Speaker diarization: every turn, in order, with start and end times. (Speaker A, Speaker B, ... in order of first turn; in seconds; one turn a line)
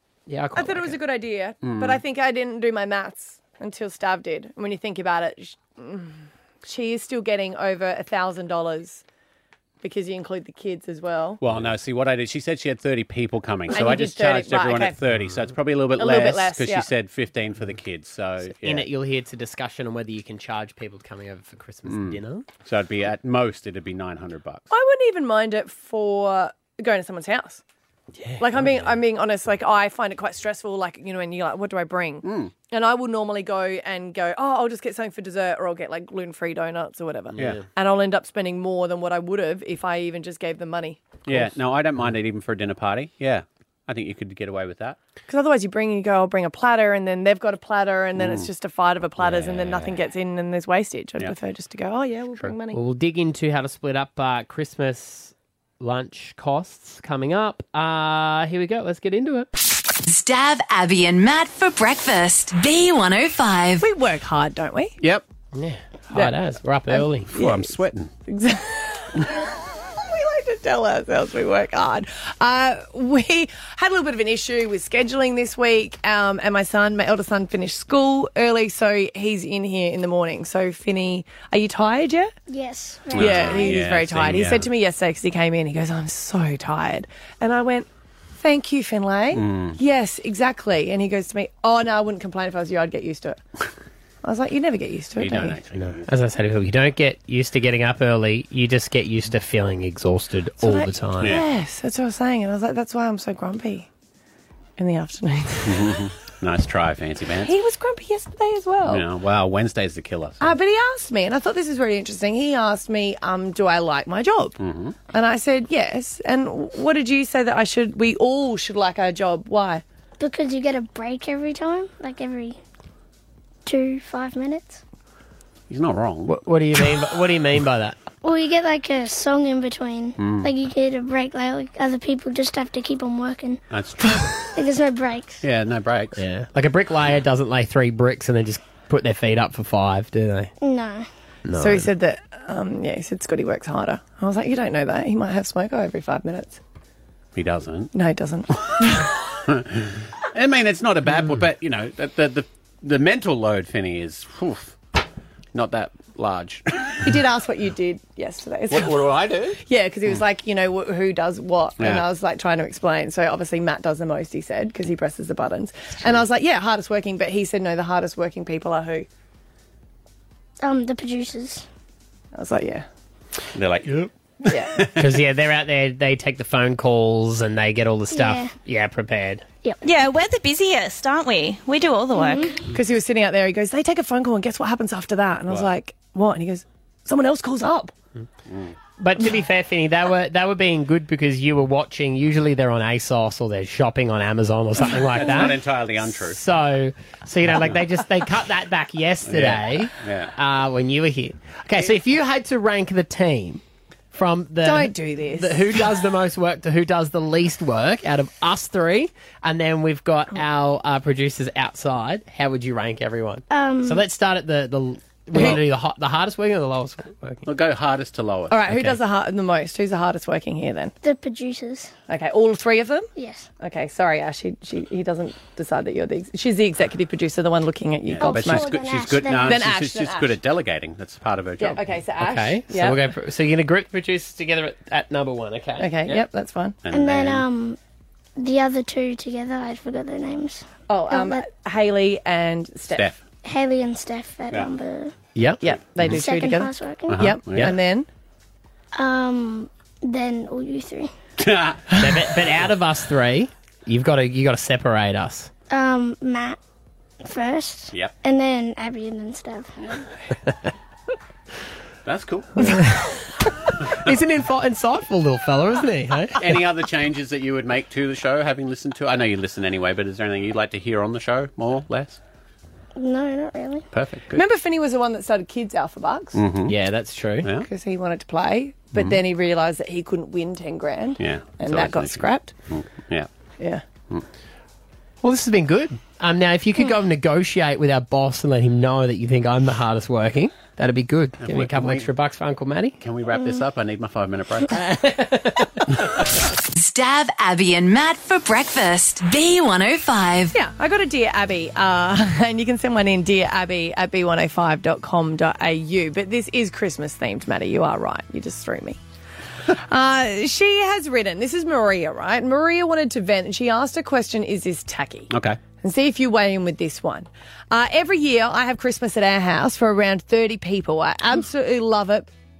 Speaker A: 0.3-1.0
Speaker B: 0.5-9.0
Speaker C: 1.6-2.0
Speaker B: 9.8-11.4
Speaker C: 11.4-18.9
Speaker B: 13.7-14.9
Speaker B: 16.0-16.9
Speaker A: 18.6-22.4
Speaker C: 21.9-24.7
Speaker B: 24.7-27.6
Speaker A: 28.1-29.0
Speaker B: 28.4-41.5
Speaker C: 32.2-32.5
Speaker A: 37.3-37.6
Speaker C: 41.3-45.0
Speaker B: 45.3-52.8
Speaker C: 48.1-48.5
Speaker A: 49.2-50.0
Speaker A: 52.7-59.5
Speaker D: 60.0-63.8
Speaker B: 63.8-65.0
Speaker A: 65.5-67.3
Speaker B: 66.9-67.7
Speaker C: 67.3-68.1
Speaker B: 68.2-82.3
Speaker E: 82.5-83.9
Speaker C: 83.1-84.7
Speaker B: 83.1-93.4
Speaker C: 89.3-89.8
Speaker B: 94.2-95.6
Speaker C: 95.2-96.1
Speaker A: 95.7-101.3
Speaker B: 100.6-103.9
Speaker C: 101.2-101.5
Speaker B: 104.8-106.0
Speaker C: 105.6-107.5
Speaker B: 107.4-109.0
Speaker C: 108.8-110.5
Speaker B: 110.4-114.6
Speaker C: 114.6-115.0
Speaker B: 115.1-119.8
Speaker E: 120.2-122.6
Speaker E: 123.7-124.8
Speaker C: 125.7-126.3
Speaker A: 126.2-128.0
Speaker E: 128.2-133.6
Speaker C: 130.2-130.5
Speaker C: 133.7-134.5
Speaker E: 134.5-135.4
Speaker C: 135.4-136.2
Speaker A: 136.2-140.5
Speaker E: 140.6-141.1
Speaker A: 141.5-141.9
Speaker B: 141.6-146.6
Speaker C: 147.3-147.9
Speaker B: 147.9-149.1
Speaker C: 149.4-154.8
Speaker C: 155.5-157.2
Speaker B: 157.0-159.0
Speaker C: 158.7-159.6
Speaker B: 159.7-169.1
Speaker E: 170.6-171.6
Speaker B: 172.3-172.8
Speaker C: 173.5-175.0
Speaker B: 174.5-174.8
Speaker A: 175.0-179.4
Speaker E: 178.1-178.5
Speaker E: 179.6-179.9
Speaker F: 179.9-182.4
Speaker E: 182.2-182.6
Speaker B: 182.7-187.9
Speaker C: 188.5-188.7
Speaker A: 189.0-195.6
Speaker C: 195.2-196.4
Speaker A: 196.2-203.6
Speaker C: 199.3-200.3
Speaker A: 204.1-217.5
Speaker B: 204.6-205.6
Speaker E: 213.5-214.0
Speaker C: 217.4-218.7
Speaker B: 218.5-220.9
Speaker E: 221.0-221.9
Speaker B: 222.1-223.1
Speaker E: 223.2-223.5
Speaker B: 223.6-228.7
Speaker C: 228.1-231.8
Speaker E: 228.2-229.6
Speaker B: 229.3-230.3
Speaker B: 231.6-233.0
Speaker A: 232.2-236.2
Speaker B: 235.8-236.8
Speaker C: 236.8-237.4
Speaker E: 236.9-237.8
Speaker E: 238.4-241.4
Speaker B: 240.9-243.1
Speaker E: 243.4-245.1
Speaker A: 245.3-245.6
Speaker B: 245.6-248.1
Speaker E: 246.0-247.2
Speaker C: 247.1-247.7
Speaker E: 248.9-251.1
Speaker C: 251.4-252.0
Speaker A: 251.9-255.5
Speaker E: 255.7-256.6
Speaker E: 257.2-260.1
Speaker C: 262.0-263.0
Speaker A: 263.9-266.5
Speaker C: 266.4-272.2
Speaker E: 272.9-273.9
Speaker C: 273.9-274.4
Speaker B: 274.3-276.4
Speaker C: 276.3-276.7
Speaker A: 276.6-277.5
Speaker B: 277.6-282.5
Speaker C: 278.9-279.2
Speaker C: 281.2-283.3
Speaker A: 285.2-293.0
Speaker C: 291.4-292.1
Speaker C: 293.0-294.8
Speaker E: 293.3-293.6
Speaker A: 294.8-295.9
Speaker D: 296.7-300.5
Speaker B: 300.5-309.0
Speaker B: 309.8-315.3
Speaker C: 315.3-315.6
Speaker B: 315.8-322.3